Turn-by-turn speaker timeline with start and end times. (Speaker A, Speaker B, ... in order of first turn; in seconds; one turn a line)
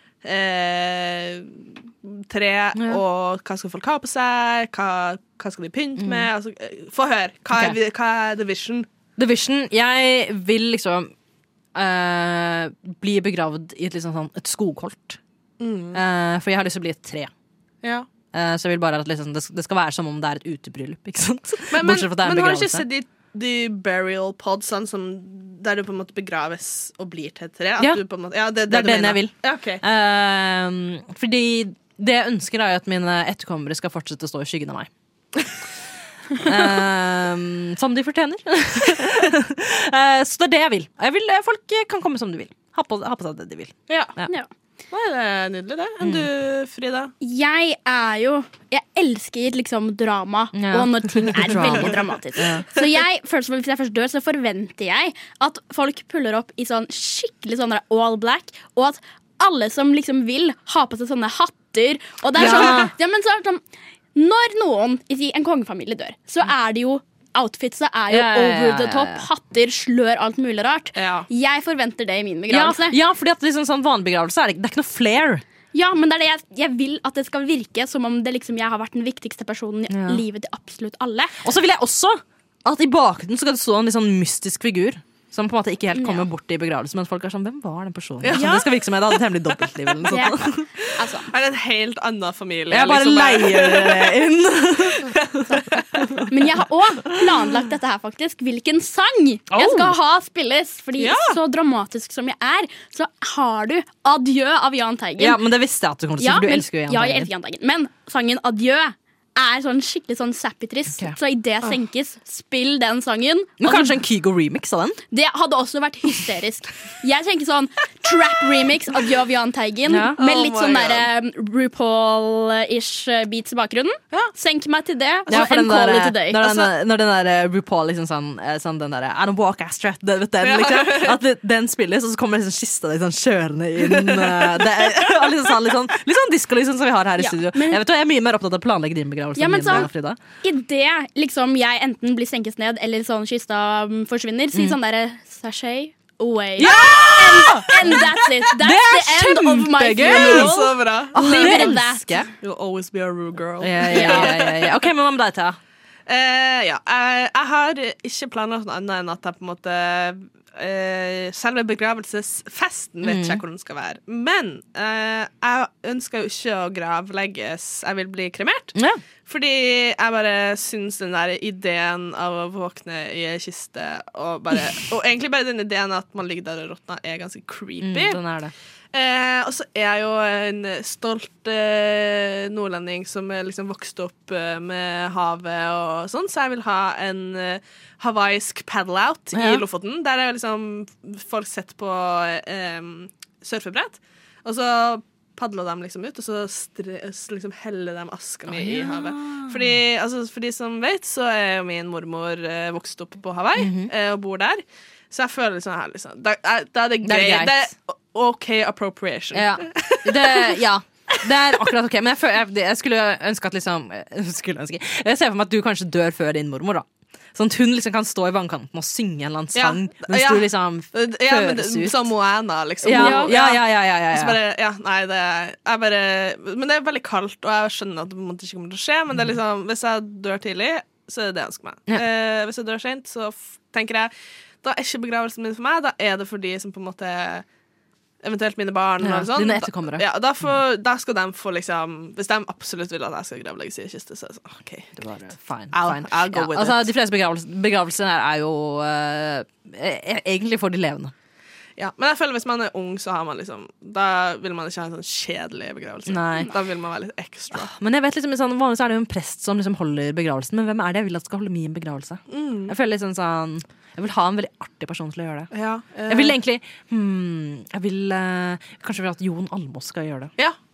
Speaker A: 0.2-8.9
Speaker B: 2.8-3.0
Speaker B: 6.0-6.3
Speaker B: 7.5-7.8
Speaker B: 9.2-11.1
Speaker B: 11.8-15.2
Speaker A: 15.6-16.0
Speaker B: 15.9-17.3
Speaker B: 18.3-22.9
Speaker A: 21.7-29.8
Speaker B: 28.7-34.9
Speaker B: 36.4-44.3
Speaker A: 43.9-44.1
Speaker A: 44.9-47.1
Speaker B: 46.0-46.3
Speaker C: 47.2-63.6
Speaker B: 50.5-52.7
Speaker B: 62.4-62.9
Speaker A: 62.5-62.8
Speaker C: 64.2-73.0
Speaker B: 68.1-69.2
Speaker A: 71.0-71.3
Speaker B: 72.5-75.4
Speaker C: 75.7-81.4
Speaker B: 79.9-80.2
Speaker B: 81.4-90.7
Speaker C: 85.9-86.3
Speaker A: 88.2-89.2
Speaker C: 88.4-88.6
Speaker C: 90.1-90.4
Speaker A: 90.8-94.3
Speaker C: 90.9-91.3
Speaker B: 92.7-96.3
Speaker A: 95.0-96.2
Speaker C: 96.3-105.4
Speaker B: 99.5-100.0
Speaker A: 101.0-101.4
Speaker B: 105.2-107.3
Speaker C: 106.2-114.0
Speaker B: 113.6-115.0
Speaker C: 115.1-126.6
Speaker B: 119.9-120.2
Speaker A: 120.2-121.1
Speaker B: 125.3-140.2
Speaker A: 130.4-131.2
Speaker A: 133.9-135.1
Speaker C: 137.2-137.8
Speaker C: 139.4-139.9
Speaker C: 140.4-152.0
Speaker B: 146.6-150.6
Speaker A: 150.0-151.7
Speaker B: 151.1-152.3
Speaker A: 152.4-154.8
Speaker B: 153.6-155.6
Speaker C: 153.9-154.3
Speaker A: 156.1-178.2
Speaker B: 163.0-163.4
Speaker B: 168.8-169.0
Speaker B: 177.8-178.5
Speaker A: 178.9-210.6
Speaker B: 189.3-189.6
Speaker B: 198.5-199.7
Speaker B: 203.6-203.9
Speaker B: 207.0-207.7
Speaker B: 209.3-222.1
Speaker A: 219.5-234.1
Speaker B: 222.8-224.4
Speaker C: 222.9-223.3
Speaker A: 234.6-237.4
Speaker A: 238.2-244.9
Speaker B: 239.0-240.0
Speaker B: 245.0-251.1
Speaker A: 245.7-246.9
Speaker A: 251.8-257.7
Speaker B: 256.1-256.5
Speaker B: 257.5-265.5
Speaker A: 262.3-262.7
Speaker A: 265.5-266.4
Speaker B: 266.1-270.3